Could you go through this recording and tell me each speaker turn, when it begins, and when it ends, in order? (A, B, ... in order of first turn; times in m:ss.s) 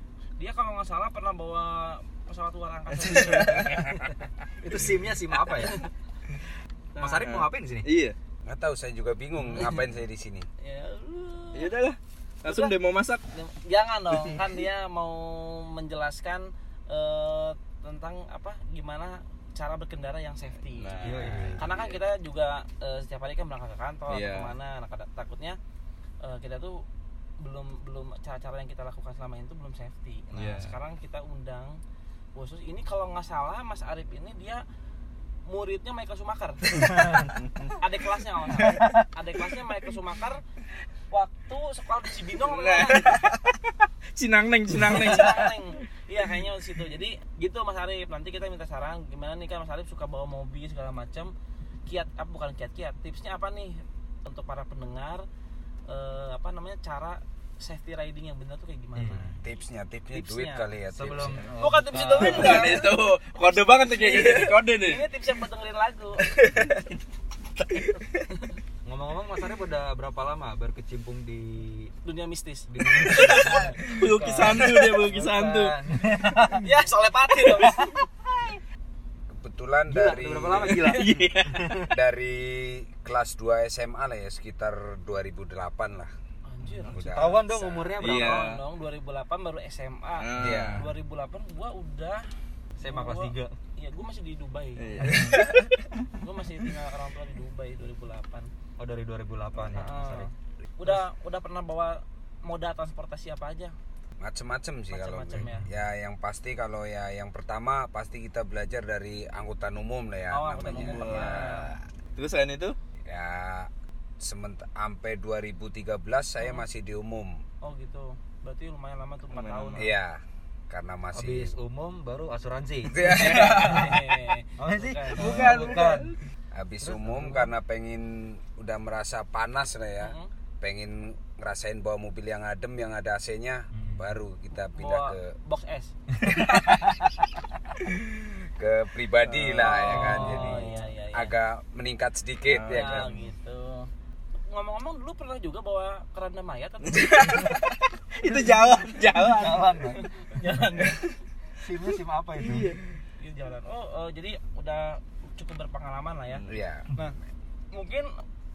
0:00.4-0:04.1 A
0:03.0-0:03.9 B
0:04.6-0:05.8 C
0:05.6-0:05.9 A
0:07.0-0:07.3 A
0:07.0-0:07.9 C
0:07.2-0:08.2 B
0:08.5-0:10.5 D
0:10.6-0:11.7 A
0:11.6-0:13.2 B
0:12.4-0:12.7 A
0:13.3-0:25.6 A
0:20.8-0:22.0 B
0:21.0-0:21.7 C
0:24.1-0:24.5 B
0:26.2-0:26.8 A
0:27.4-0:31.8 A
0:30.3-0:30.7 B
0:32.4-0:34.6 A
0:35.5-0:40.4 A
0:37.0-0:37.3 C
0:38.6-0:39.0 C
0:41.1-0:43.2 A
0:42.4-0:45.6 B
0:44.9-0:51.3 A
0:51.9-0:55.2 A
0:55.9-0:59.4 A
0:59.0-0:59.4 C
0:59.4-1:01.5 D
1:00.1-1:00.7 A
1:00.9-1:02.8 C
1:01.6-1:06.3 A
1:02.2-1:05.0 B
1:06.3-1:06.8 B
1:08.9-1:11.9 C
1:12.0-1:13.7 A
1:12.7-1:16.7 C
1:13.1-1:15.7 B
1:16.6-1:18.1 A
1:19.4-1:20.9 D
1:19.9-1:21.9 C
1:20.8-1:21.8 B
1:21.9-1:26.1 D
1:26.5-1:27.3 A
1:26.9-1:27.9 D
1:26.9-1:28.5 C
1:28.0-1:28.6 B
1:28.0-1:32.3 A
1:30.2-1:30.8 B
1:30.4-1:30.9 D
1:32.8-1:33.6 C
1:32.8-1:35.2 A
1:34.8-1:35.4 B
1:35.0-1:35.4 C
1:36.1-1:38.5 A
1:38.8-1:40.3 C
1:39.7-1:43.8 A
1:44.2-1:51.8 D
1:44.9-1:45.6 A
1:45.3-1:45.7 C
1:50.3-1:51.7 A
1:50.6-1:52.8 B
1:53.1-1:57.4 D
1:57.6-1:59.9 A
1:59.3-1:59.9 B
1:59.8-2:01.5 D
2:01.1-2:04.1 C
2:02.9-2:04.0 D
2:03.1-2:06.0 A
2:04.6-2:06.1 C
2:05.3-2:05.8 D
2:06.5-2:15.4 D
2:06.8-2:07.5 C
2:10.0-2:10.3 A
2:13.7-2:14.1 C
2:14.8-2:15.9 A
2:16.2-2:17.1 C
2:18.6-2:23.2 D
2:19.6-2:21.3 A
2:19.6-2:20.8 C
2:19.6-2:20.4 B
2:22.5-2:23.1 B
2:22.7-2:23.9 A
2:24.5-2:27.6 A
2:26.9-2:29.7 B
2:28.3-2:30.1 C
2:29.9-2:31.1 A
2:31.6-2:32.8 C
2:32.4-2:32.8 B
2:33.2-2:36.4 A
2:36.5-2:36.9 D
2:37.7-2:38.1 A